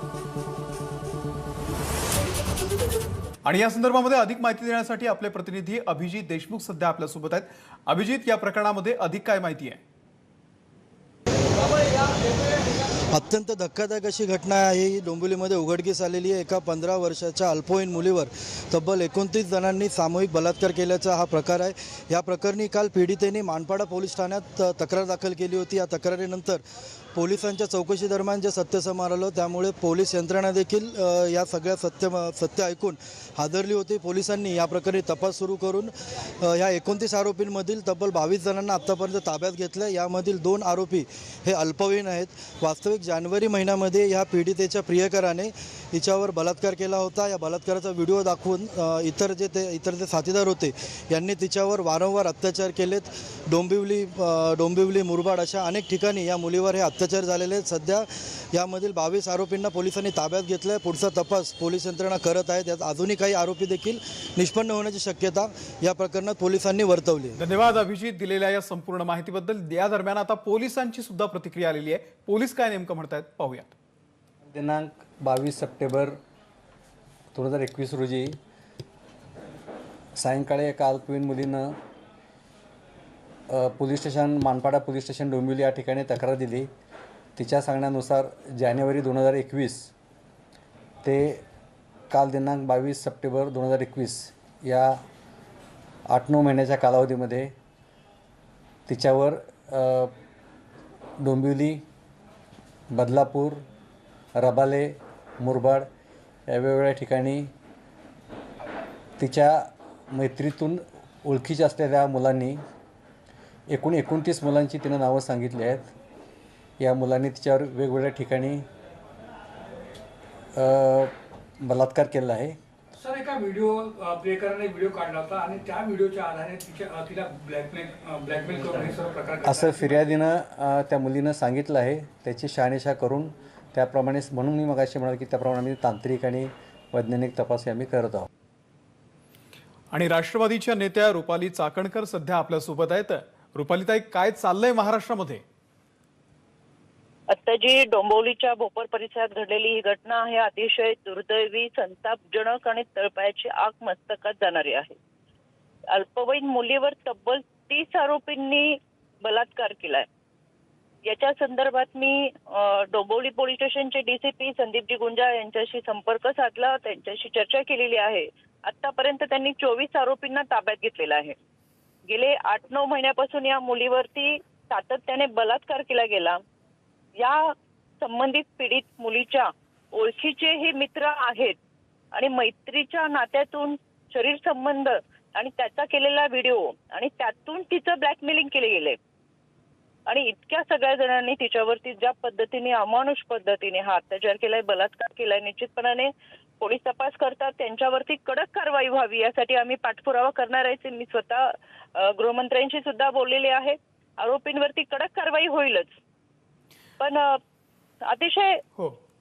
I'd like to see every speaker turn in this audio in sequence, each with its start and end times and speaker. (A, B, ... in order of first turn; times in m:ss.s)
0:03.5-0:09.8 A
0:13.1-0:26.6 B
0:27.2-1:07.4 B
1:07.4-1:13.8 A
1:14.5-1:16.2 C
1:17.3-1:18.4 C
1:20.2-1:21.8 C
1:23.5-1:26.7 C
1:27.4-1:29.9 C
1:31.0-1:31.4 C
1:32.1-1:35.0 C
1:36.1-1:37.5 C
1:38.9-1:40.1 C
1:41.2-1:41.8 C
1:42.9-1:43.6 C
1:44.4-1:45.9 C
1:46.5-1:47.5 C
1:49.2-1:52.6 C
1:53.7-1:55.9 C
1:56.8-1:58.6 C
2:00.6-2:02.6 C
2:03.0-2:10.1 D
2:09.4-2:18.3 C
2:19.9-2:25.4 A
2:27.3-2:35.0 E
2:35.9-2:40.1 E
2:41.1-2:51.4 E
2:52.1-2:56.4 E
2:57.2-3:01.6 E
3:02.1-3:09.0 E
3:10.1-3:25.9 E
3:27.0-3:27.4 E
3:28.1-3:28.6 E